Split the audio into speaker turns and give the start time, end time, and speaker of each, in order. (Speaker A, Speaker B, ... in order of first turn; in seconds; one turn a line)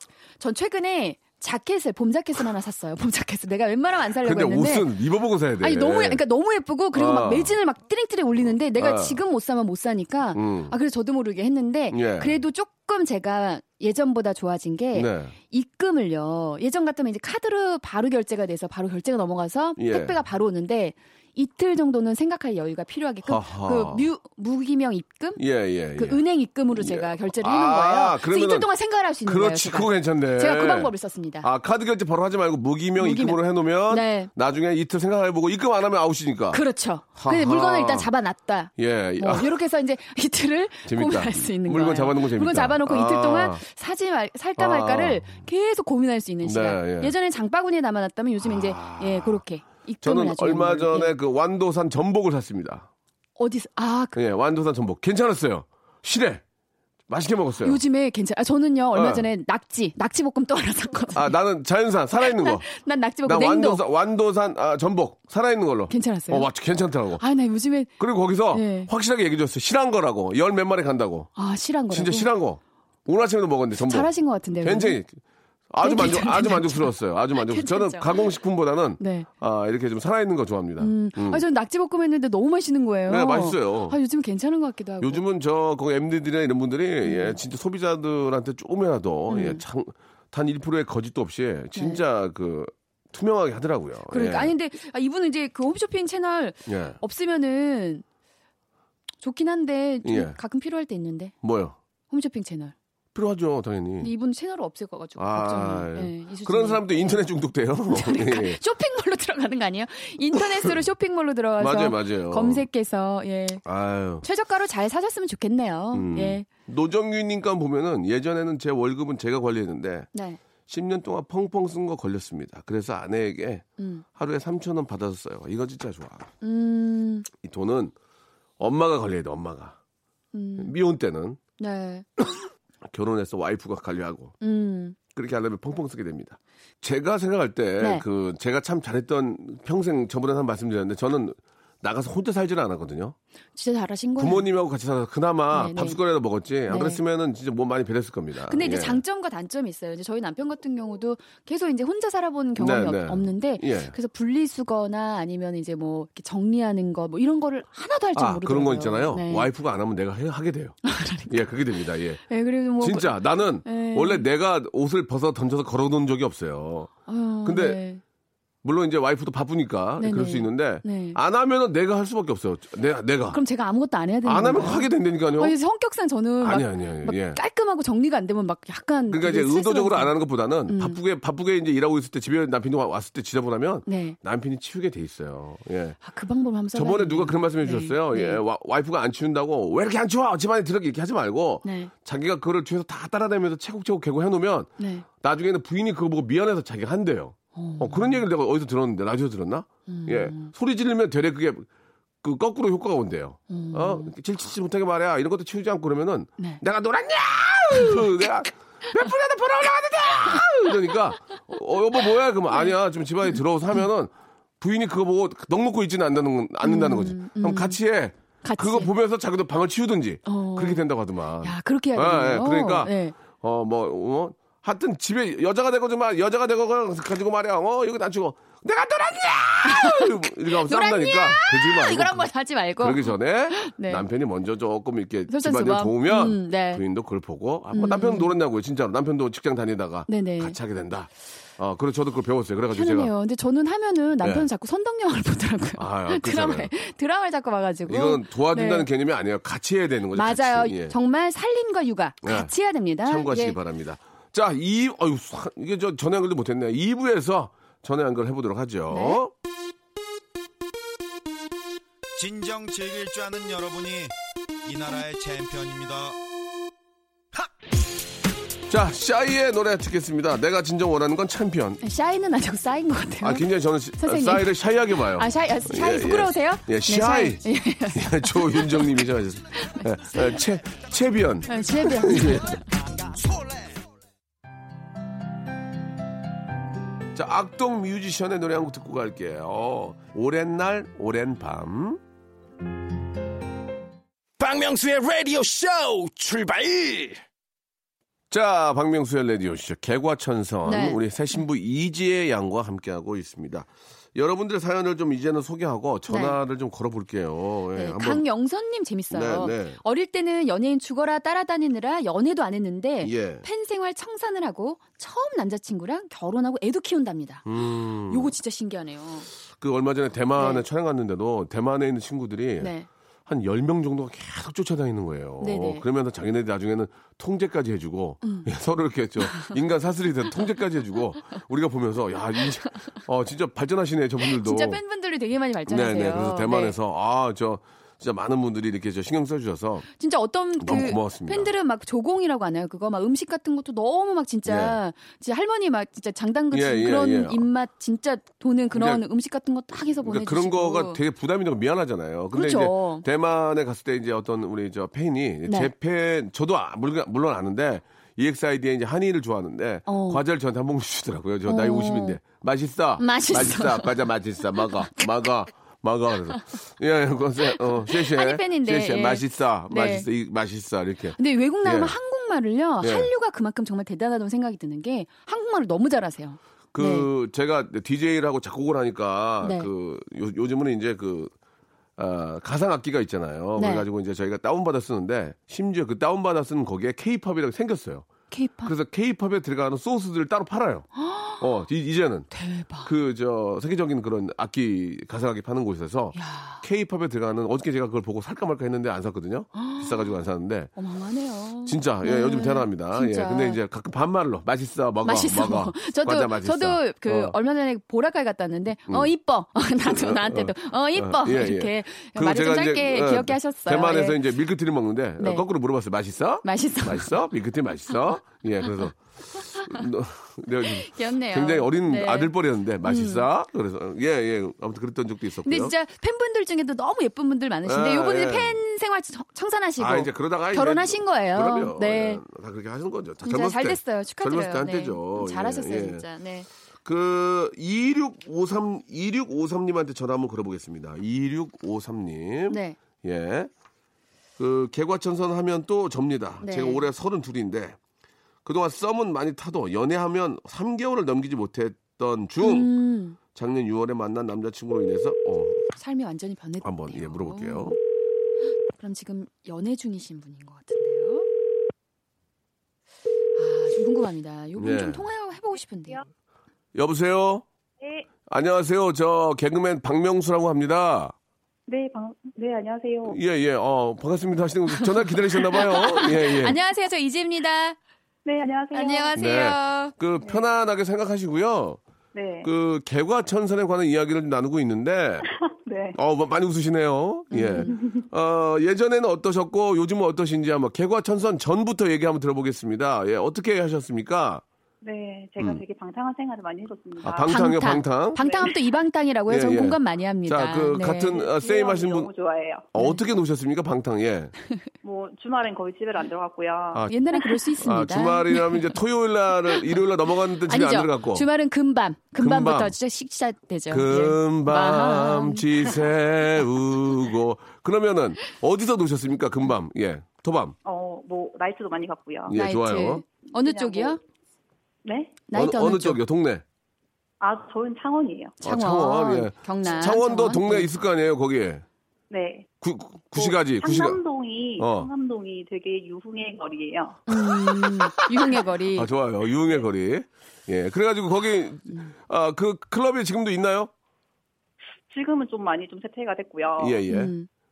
Speaker A: 0.4-4.9
Speaker B: 4.2-6.2
Speaker A: 5.6-25.4
Speaker B: 6.9-7.6
Speaker B: 8.8-9.2
Speaker B: 10.3-10.7
Speaker B: 11.9-12.4
Speaker B: 14.9-15.3
Speaker B: 19.8-20.1
Speaker B: 23.2-24.1
Speaker B: 25.4-26.2
Speaker A: 26.0-31.5
Speaker B: 26.8-28.7
Speaker B: 29.2-36.6
Speaker A: 33.0-34.3
Speaker A: 36.5-51.1
Speaker B: 37.1-38.1
Speaker B: 38.8-39.6
Speaker B: 40.9-43.6
Speaker B: 44.6-45.4
Speaker B: 46.4-47.1
Speaker B: 48.4-49.4
Speaker B: 50.0-52.9
Speaker A: 53.4-54.2
Speaker B: 54.1-56.4
Speaker B: 57.1-57.8
Speaker A: 57.6-61.4
Speaker B: 58.9-59.3
Speaker B: 61.1-62.6
Speaker A: 62.2-63.8
Speaker B: 63.2-67.2
Speaker A: 65.9-66.5
Speaker A: 67.2-68.0
Speaker B: 68.0-71.3
Speaker A: 68.5-68.9
Speaker A: 71.4-72.3
Speaker B: 71.9-75.2
Speaker A: 73.8-75.0
Speaker B: 75.7-81.4
Speaker A: 75.8-78.3
Speaker A: 79.0-79.3
Speaker A: 80.8-85.2
Speaker B: 83.1-84.0
Speaker B: 85.0-94.5
Speaker A: 87.0-87.4
Speaker A: 89.3-89.6
Speaker A: 91.8-92.0
Speaker A: 94.1-98.0
Speaker B: 96.7-97.0
Speaker A: 99.2-101.3
Speaker B: 100.0-100.4
Speaker B: 101.4-101.8
Speaker A: 102.1-102.7
Speaker B: 103.1-104.1
Speaker A: 104.0-107.3
Speaker B: 105.2-108.6
Speaker A: 107.9-113.6
Speaker B: 110.4-110.7
Speaker B: 111.6-112.7
Speaker B: 113.7-114.2
Speaker A: 114.2-116.5
Speaker B: 115.9-120.1
Speaker A: 120.1-120.4
Speaker B: 120.7-123.6
Speaker A: 123.8-124.0
Speaker B: 124.2-126.3
Speaker A: 126.4-127.3
Speaker B: 127.3-127.9
Speaker B: 128.6-129.8
Speaker A: 130.3-130.7
Speaker B: 130.6-131.4
Speaker A: 131.6-132.1
Speaker B: 132.8-134.4
Speaker A: 134.4-135.0
Speaker B: 135.1-143.2
Speaker A: 137.8-138.0
Speaker A: 143.6-144.5
Speaker B: 144.2-149.0
Speaker A: 145.5-146.0
Speaker A: 146.7-147.0
Speaker A: 148.5-159.5
Speaker B: 152.6-153.9
Speaker B: 158.2-160.8
Speaker A: 160.8-161.5
Speaker B: 161.3-162.2
Speaker A: 162.3-164.3
Speaker B: 162.8-166.9
Speaker A: 167.1-168.0
Speaker B: 167.4-167.8
Speaker B: 168.6-173.4
Speaker A: 170.0-171.2
Speaker A: 173.3-180.1
Speaker B: 174.2-175.6
Speaker B: 176.4-177.4
Speaker B: 179.1-186.0
Speaker A: 180.7-181.0
Speaker A: 183.9-184.2
Speaker A: 186.0-188.4
Speaker B: 186.7-201.7
Speaker A: 191.6-191.9
Speaker A: 194.8-195.1
Speaker A: 197.6-198.2
Speaker A: 199.9-200.5
Speaker B: 202.2-232.3
Speaker A: 203.5-204.1
Speaker A: 207.7-208.1
Speaker A: 216.6-217.8
Speaker A: 218.4-218.9
Speaker A: 220.3-220.8
Speaker A: 221.4-223.2
Speaker A: 229.6-234.1
Speaker B: 232.8-243.1
Speaker A: 235.3-236.8
Speaker A: 237.7-238.3
Speaker A: 240.1-240.6
Speaker A: 242.7-248.9
Speaker B: 244.2-244.5
Speaker B: 245.8-246.7
Speaker B: 247.9-250.9
Speaker A: 250.1-253.6
Speaker B: 252.2-252.5
Speaker B: 253.0-259.3
Speaker A: 258.9-259.2
Speaker C: 262.2-264.1
Speaker C: 264.6-266.2
Speaker B: 268.7-271.8
Speaker A: 271.8-273.5
Speaker B: 273.2-282.6
Speaker A: 274.0-279.0
Speaker A: 279.6-280.3
Speaker A: 281.5-282.6
Speaker B: 287.1-292.0
Speaker D: 294.4-297.2
Speaker B: 298.3-308.2
Speaker A: 300.6-301.0
Speaker A: 306.1-306.4
Speaker A: 307.8-317.5
Speaker B: 309.1-309.8
Speaker B: 313.0-313.4
Speaker B: 317.4-318.3
Speaker A: 318.1-319.3
Speaker B: 319.6-322.7
Speaker A: 320.4-320.6
Speaker A: 322.6-322.9
Speaker B: 323.3-334.8
Speaker A: 325.4-325.9
Speaker A: 328.2-328.5
Speaker A: 334.3-336.8
Speaker B: 335.7-339.9
Speaker A: 340.0-351.0
Speaker B: 340.6-341.5
Speaker B: 344.4-344.8
Speaker B: 346.5-347.5
Speaker B: 348.7-349.0
Speaker B: 350.0-372.0
Speaker A: 352.3-353.1
Speaker A: 355.5-355.7
Speaker A: 359.9-360.2
Speaker A: 361.5-362.2
Speaker A: 363.0-364.1
Speaker A: 367.9-370.1
Speaker A: 371.2-377.1
Speaker B: 372.8-373.1
Speaker B: 376.7-381.3
Speaker A: 379.4-379.7
Speaker B: 382.0-388.1
Speaker A: 383.6-383.9
Speaker A: 388.3-388.7
Speaker B: 388.6-390.9
Speaker A: 391.0-391.4
Speaker B: 391.4-392.3
Speaker A: 392.3-392.9
Speaker B: 392.8-400.7
Speaker A: 396.1-396.6
Speaker A: 399.6-400.0
Speaker A: 400.8-403.6
Speaker B: 401.6-407.4
Speaker A: 405.0-414.2
Speaker B: 409.8-425.7
Speaker A: 415.2-415.5
Speaker A: 416.4-417.2
Speaker A: 419.5-419.8
Speaker A: 420.6-422.3
Speaker A: 422.8-423.3
Speaker A: 425.4-432.2
Speaker B: 427.6-428.6
Speaker B: 429.8-436.1
Speaker A: 433.2-436.5
Speaker B: 436.9-443.5
Speaker A: 442.5-442.8
Speaker B: 444.4-447.8
Speaker A: 446.4-446.9
Speaker B: 448.4-452.7
Speaker A: 452.4-453.2
Speaker B: 453.3-455.7
Speaker A: 455.8-457.8
Speaker B: 456.6-457.8
Speaker A: 458.7-461.3
Speaker A: 463.4-466.0
Speaker B: 464.6-465.1
Speaker B: 466.8-467.4
Speaker E: 467.8-468.1
Speaker B: 468.3-471.1
Speaker E: 471.7-473.2
Speaker B: 473.1-476.6
Speaker A: 475.5-477.8
Speaker E: 478.2-479.2
Speaker A: 478.7-479.9
Speaker B: 479.1-481.8
Speaker E: 482.1-482.5
Speaker B: 482.4-485.3
Speaker E: 485.3-486.0
Speaker B: 485.9-494.4
Speaker A: 487.3-487.7
Speaker E: 487.7-488.0
Speaker E: 494.8-497.6
Speaker B: 497.0-498.2
Speaker A: 497.2-501.2
Speaker E: 498.2-498.6
Speaker B: 499.3-502.1
Speaker E: 501.1-502.7
Speaker B: 502.7-504.3
Speaker E: 504.8-507.4
Speaker A: 506.9-508.8
Speaker B: 507.6-511.3
Speaker A: 510.5-515.8
Speaker B: 512.2-512.7
Speaker B: 513.7-520.5
Speaker E: 520.6-522.4
Speaker B: 522.3-523.0
Speaker A: 522.3-524.0
Speaker E: 523.3-524.0
Speaker E: 524.9-525.2
Speaker A: 525.3-526.0
Speaker B: 525.3-526.4
Speaker E: 527.2-528.4
Speaker A: 528.4-530.7
Speaker B: 528.4-531.6
Speaker E: 532.1-532.5
Speaker B: 532.6-534.0
Speaker E: 533.1-537.0
Speaker B: 534.6-534.9
Speaker A: 537.1-538.9
Speaker B: 537.1-543.7
Speaker E: 544.9-546.8
Speaker B: 546.6-547.1
Speaker A: 546.9-547.3